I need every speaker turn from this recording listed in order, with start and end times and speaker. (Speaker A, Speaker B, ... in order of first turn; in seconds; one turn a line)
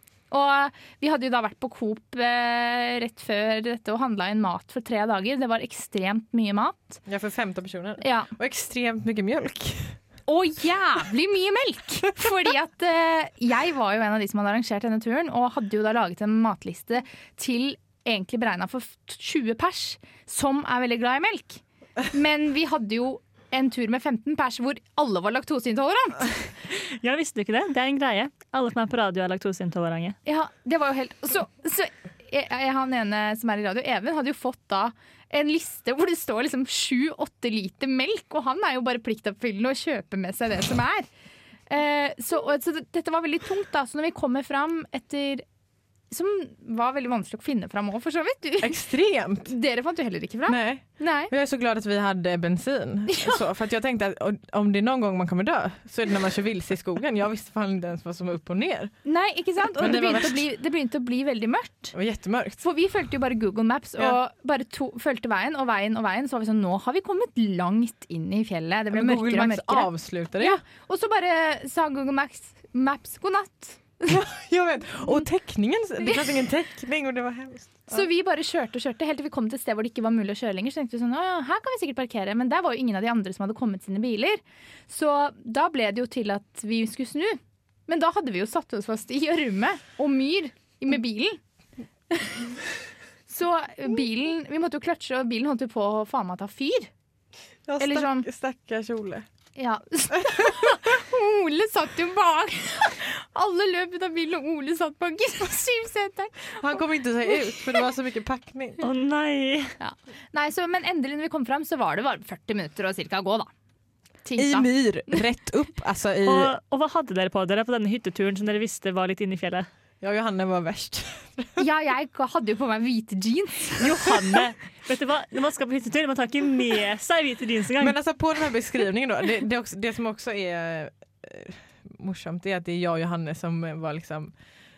Speaker A: 0.3-7.0
Speaker B: 7.0-10.0
Speaker A: 8.0-8.3
Speaker A: 10.3-26.3
Speaker C: 26.7-30.1
Speaker A: 30.2-41.1
Speaker A: 41.7-45.4
Speaker A: 46.1-48.8
Speaker B: 48.6-49.5
Speaker A: 49.4-51.3
Speaker B: 50.5-58.9
Speaker A: 53.1-53.4
Speaker A: 59.0-61.9
Speaker B: 59.7-60.4
Speaker B: 61.9-62.6
Speaker A: 62.6-74.1
Speaker B: 68.9-70.6
Speaker B: 74.0-78.0
Speaker A: 77.9-91.4
Speaker A: 92.1-92.4
Speaker A: 93.3-96.9
Speaker B: 97.6-99.2
Speaker A: 97.8-98.3
Speaker A: 99.5-106.8
Speaker B: 106.6-108.8
Speaker A: 107.5-107.8
Speaker C: 108.8-109.7
Speaker A: 109.8-113.5
Speaker A: 114.2-115.2
Speaker B: 114.4-116.5
Speaker C: 116.2-119.7
Speaker B: 120.0-121.6
Speaker A: 121.6-123.8
Speaker C: 123.8-128.0
Speaker B: 127.8-134.3